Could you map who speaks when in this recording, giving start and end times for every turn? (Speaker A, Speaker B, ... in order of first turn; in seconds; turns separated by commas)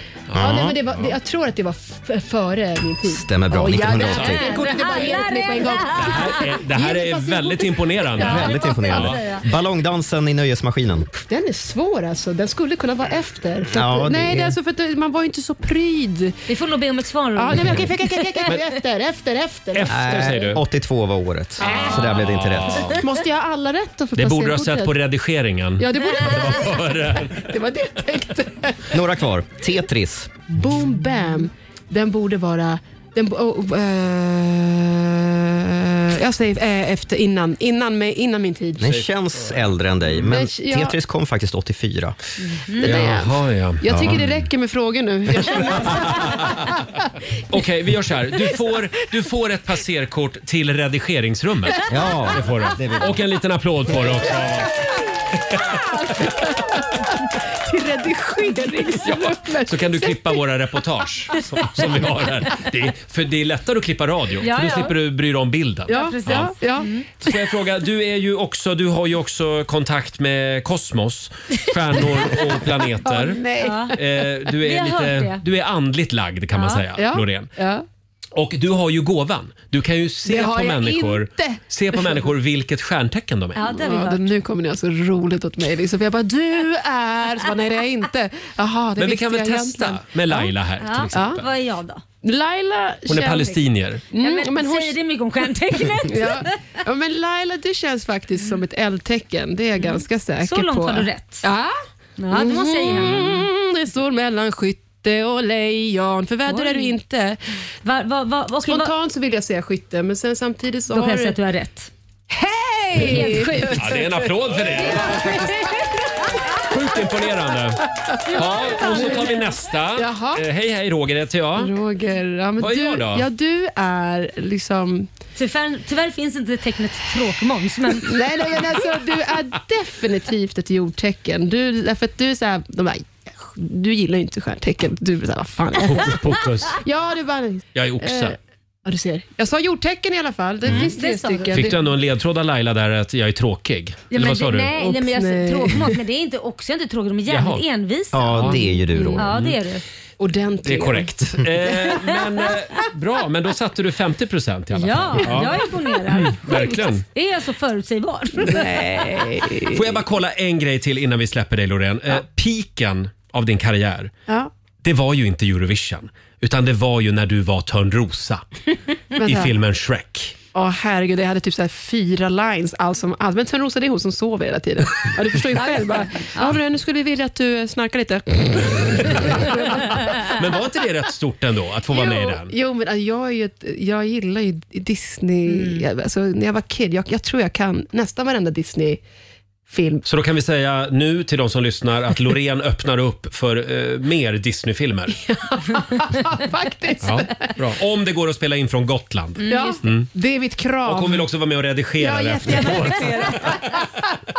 Speaker A: 0.3-1.1, Speaker B: 0.3-0.8, Speaker C: 0.3-8.2, Speaker B: 3.0-4.4, Speaker A: 4.1-4.5, Speaker D: 4.1-6.5, Speaker A: 5.9-9.2, Speaker B: 8.2-11.1, Speaker D: 8.2-9.4, Speaker C: 11.1-16.4, Speaker B: 13.7-14.6, Speaker D: 16.5-18.6, Speaker C: 17.4-20.5, Speaker A: 19.7-20.6, Speaker B: 19.9-23.0, Speaker A: 21.6-23.0, Speaker C: 21.6-22.0, Speaker C: 22.9-24.9, Speaker A: 24.1-27.5, Speaker C: 25.8-29.0, Speaker B: 28.9-30.3, Speaker C: 30.5-39.0, Speaker B: 38.8-42.1, Speaker A: 38.9-39.5, Speaker C: 40.2-41.0, Speaker D: 42.5-42.9, Speaker C: 42.8-46.8, Speaker A: 42.8-44.4, Speaker B: 43.9-44.2, Speaker A: 45.9-46.4, Speaker A: 47.5-54.8, Speaker C: 48.3-48.7, Speaker B: 51.9-53.1, Speaker C: 54.1-54.7, Speaker A: 55.4-56.4, Speaker C: 55.7-60.4, Speaker A: 59.0-66.5, Speaker D: 64.4-64.9, Speaker C: 65.9-66.9, Speaker D: 65.9-67.1, Speaker A: 67.2-73.4, Speaker C: 72.0-74.3, Speaker D: 73.6-74.0, Speaker A: 73.9-77.5, Speaker D: 74.6-75.4, Speaker D: 76.5-76.8, Speaker C: 76.9-77.8, Speaker A: 78.3-83.8, Speaker C: 80.2-82.3, Speaker D: 83.5-84.3, Speaker C: 83.8-90.5, Speaker A: 89.0-91.4, Speaker D: 90.8-92.0, Speaker C: 91.1-91.4, Speaker C: 92.2-95.0, Speaker A: 93.0-94.0, Speaker D: 94.1-96.6, Speaker C: 95.8-101.7, Speaker D: 99.8-101.5, Speaker D: 102.2-103.5, Speaker C: 102.3-107.4, Speaker D: 106.5-107.0, Speaker D: 107.8-108.9, Speaker C: 108.6-111.4, Speaker D: 110.9-111.9, Speaker C: 112.3-115.8, Speaker D: 113.0-114.0, Speaker A: 113.7-115.8, Speaker D: 115.0-115.8, Speaker A: 116.5-121.7, Speaker C: 118.0-119.4, Speaker D: 118.3-119.3, Speaker C: 119.9-120.4, Speaker C: 121.5-125.1, Speaker A: 122.6-123.3, Speaker D: 125.3-128.2, Speaker C: 128.0-141.8, Speaker A: 135.9-136.8, Speaker A: 137.7-138.3, Speaker D: 140.7-141.7, Speaker A: 141.5-144.7, Speaker D: 144.1-149.8, Speaker C: 144.7-146.0, Speaker A: 147.3-147.6, Speaker B: 148.1-149.3, Speaker A: 148.3-148.6, Speaker C: 148.8-149.3, Speaker A: 149.3-149.6, Speaker C: 150.2-152.5, Speaker A: 150.6-157.0, Speaker D: 154.7-158.9, Speaker C: 158.4-160.0, Speaker A: 159.7-164.1, Speaker A: 164.8-168.4, Speaker C: 169.1-169.5, Speaker A: 169.2-170.3, Speaker C: 170.5-180.7, Speaker D: 175.6-176.6, Speaker A: 180.1-182.5, Speaker C: 181.9-189.0, Speaker D: 185.5-185.9, Speaker C: 189.7-190.0, Speaker A: 190.0-195.2, Speaker C: 195.2-197.5, Speaker A: 197.0-200.1, Speaker D: 199.4-199.8, Speaker C: 199.5-201.3, Speaker A: 200.8-203.8, Speaker C: 202.0-204.1, Speaker D: 202.5-203.7